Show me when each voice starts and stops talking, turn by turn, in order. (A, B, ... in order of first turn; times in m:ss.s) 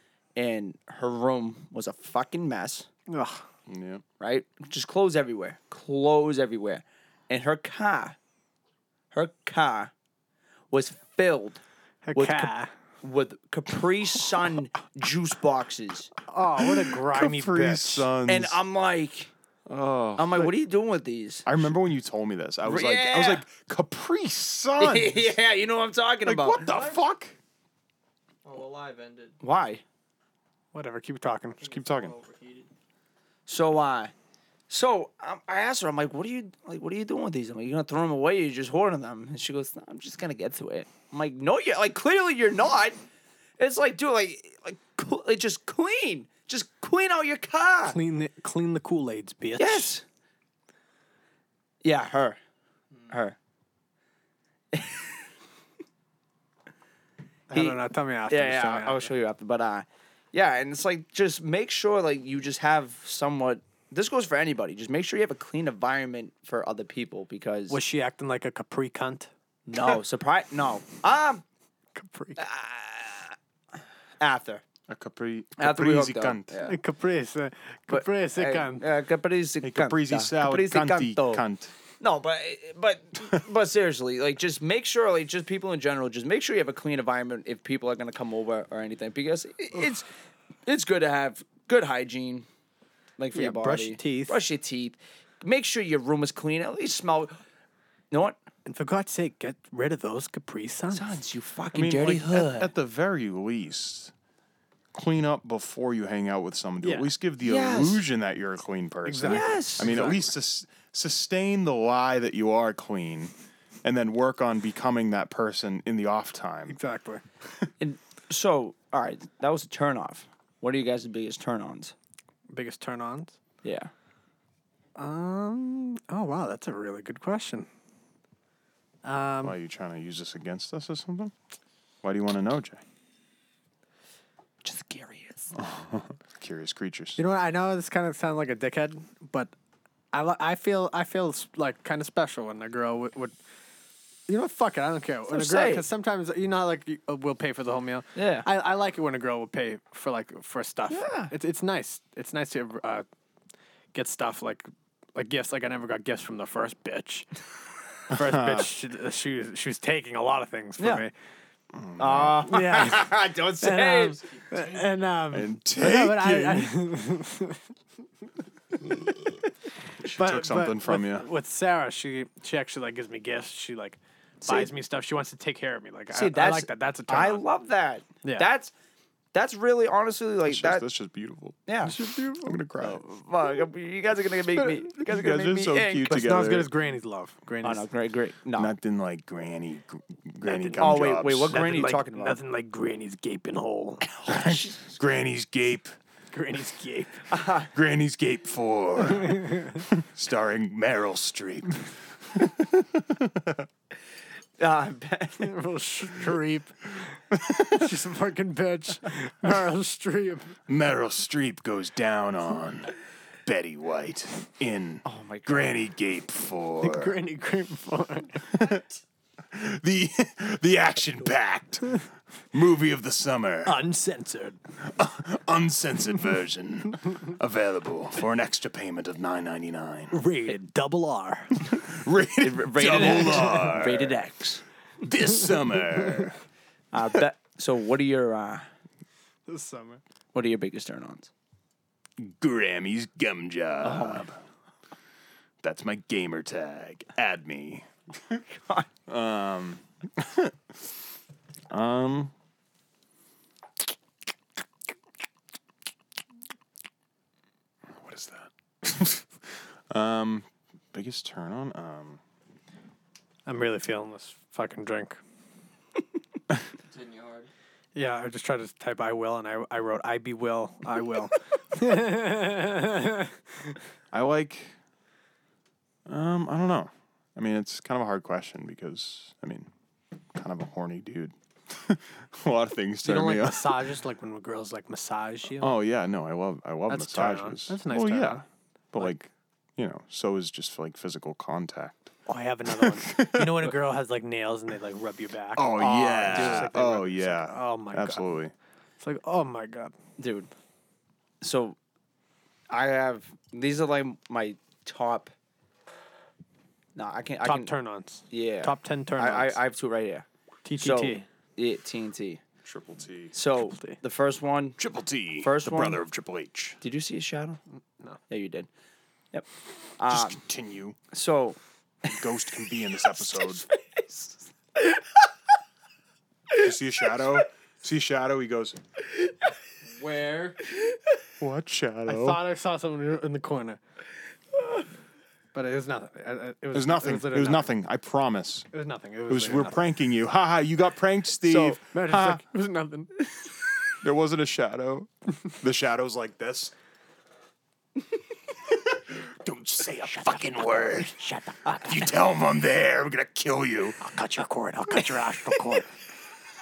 0:00.4-0:02.9 A
0:03.1-0:03.4 B
0:03.7-0:04.0 C
0:04.2-0:08.2 A
0:09.1-0:09.9 A
0:10.7-0:11.6 A
0:12.0-0:12.7 B
0:12.2-0:12.5 A
0:13.0-0:16.1 A
0:16.3-0:18.1 B
0:16.6-0:18.6 C
0:18.3-0:19.3 A
0:19.7-0:20.5 C
0:20.2-0:21.5 A
0:21.5-0:25.4 C
0:22.6-0:23.5 A
0:24.8-0:26.7 A
0:26.2-0:27.4 C
0:26.6-0:27.0 D
0:28.4-0:29.4 D
0:29.4-0:29.8 A
0:30.7-0:31.6 B
0:31.6-0:32.7 D
0:31.6-0:32.2 C
0:33.5-0:34.1 A
0:34.7-0:43.0 A
0:43.6-0:48.0 A
0:47.8-0:49.9 B
0:49.6-0:50.0 A
0:51.8-0:52.4 A
0:53.1-0:53.4 A
0:54.7-0:55.2 A
0:57.5-0:59.1 B
0:57.5-1:07.8 A
1:07.7-1:09.3 B
1:09.7-1:11.4 A
1:12.0-1:12.4 B
1:12.4-1:13.4 A
1:14.2-1:14.6 A
1:14.9-1:16.6 C
1:15.6-1:16.8 A
1:16.6-1:18.8 B
1:17.9-1:21.4 A
1:19.6-1:21.7 C
1:22.0-1:30.1 A
1:30.7-1:32.5 A
1:33.2-1:37.4 A
1:33.3-1:34.4 B
1:38.1-1:38.4 A
1:38.7-1:41.1 B
1:40.9-1:42.7 A
1:41.7-1:44.1 C
1:44.9-1:53.3 C
1:46.8-1:47.1 B
1:47.4-1:48.0 A
1:49.0-1:50.3 B
1:49.3-1:50.0 A
1:53.8-1:56.8 C
1:56.7-1:57.2 B
1:57.8-2:02.0 A
2:02.5-2:03.4 B
2:03.6-2:03.9 A
2:05.0-2:07.7 B
2:09.0-2:09.6 B
2:09.4-2:11.3 C
2:12.0-2:12.8 C
2:14.6-2:15.5 A
2:15.6-2:17.2 C
2:17.2-2:19.5 B
2:20.1-2:23.4 B
2:24.3-2:33.0 B
2:25.3-2:25.8 A
2:28.2-2:28.5 A
2:30.9-2:31.3 A
2:33.9-2:37.3 B
2:38.1-2:38.7 C
2:38.1-2:41.1 B
2:40.8-2:41.0 A
2:41.7-2:42.6 C
2:42.0-2:44.2 A
2:42.5-2:47.6 B
2:44.2-2:45.1 D
2:45.3-2:46.8 C
2:50.0-2:51.3 C
2:50.1-2:57.4 B
2:54.4-2:54.7 A
2:56.1-2:58.7 A
2:58.2-2:58.5 B
2:59.3-3:00.9 A
3:00.5-3:01.6 C
3:01.7-3:02.0 A
3:01.8-3:02.6 B
3:02.4-3:03.0 C
3:02.8-3:06.4 A
3:05.0-3:06.7 C
3:06.1-3:07.9 B
3:07.6-3:08.7 A
3:08.6-3:11.6 C
3:10.4-3:10.9 B
3:10.7-3:12.4 A
3:11.5-3:14.1 B
3:14.1-3:14.9 A
3:14.3-3:16.0 C
3:16.3-3:17.3 B
3:17.3-3:17.7 A
3:17.7-3:23.7 C
3:19.2-3:19.8 B
3:24.6-3:25.5 A
3:25.4-3:27.2 B
3:27.3-3:27.9 C
3:27.7-3:30.6 B
3:30.7-3:37.2 C
3:35.0-3:35.8 A
3:36.8-3:38.7 B
3:38.5-3:38.8 C
3:39.5-3:43.8 C
3:43.6-3:44.6 B
3:44.8-3:50.2 C
3:50.1-3:51.7 B
3:51.7-3:54.2 C
3:52.4-3:54.6 A
3:55.0-3:56.4 C
3:56.9-3:58.7 A
3:59.5-4:00.0 B
4:00.3-4:01.3 A
4:02.2-4:04.4 C
4:03.8-4:04.3 A
4:05.6-4:08.4 C
4:08.5-4:08.9 A
4:09.1-4:10.9 C
4:11.7-4:12.3 C
4:17.9-4:22.2 C
4:23.5-4:25.2 B
4:26.8-4:27.5 D
4:28.0-4:33.3 B
4:34.1-4:34.7 C
4:36.1-4:39.7 C
4:40.3-4:43.9 C
4:43.0-4:45.8 B
4:45.6-4:52.1 C
4:46.9-4:48.4 B
4:52.3-4:58.3 B
4:52.7-4:53.7 C
4:55.6-4:58.5 C
4:56.2-4:56.7 A
4:59.0-5:00.0 B
5:00.2-5:00.5 A
5:01.4-5:01.8 A
5:02.7-5:05.3 A
5:07.0-5:07.7 A
5:07.4-5:09.6 B
5:08.3-5:10.3 A
5:10.6-5:11.2 B
5:10.8-5:12.4 A
5:12.6-5:13.3 C
5:13.3-5:14.8 A
5:14.8-5:16.8 C
5:15.4-5:16.0 A
5:16.8-5:17.6 A
5:18.3-5:18.7 A
5:20.0-5:20.4 A
5:20.1-5:21.0 C
5:21.1-5:22.1 A
5:22.0-5:23.6 C
5:23.0-5:25.3 A
5:26.6-5:28.8 C
5:29.8-5:30.6 D
5:30.7-5:31.0 A
5:31.4-5:32.4 C
5:32.1-5:33.8 B
5:35.5-5:37.7 B
5:36.7-5:38.7 C
5:38.7-5:39.8 B
5:39.3-5:42.4 C
5:41.5-5:41.8 A
5:41.8-5:43.1 B
5:44.0-5:45.1 C
5:45.6-5:46.7 C
5:48.7-5:54.0 C
5:51.3-5:51.9 B
5:54.1-5:55.9 B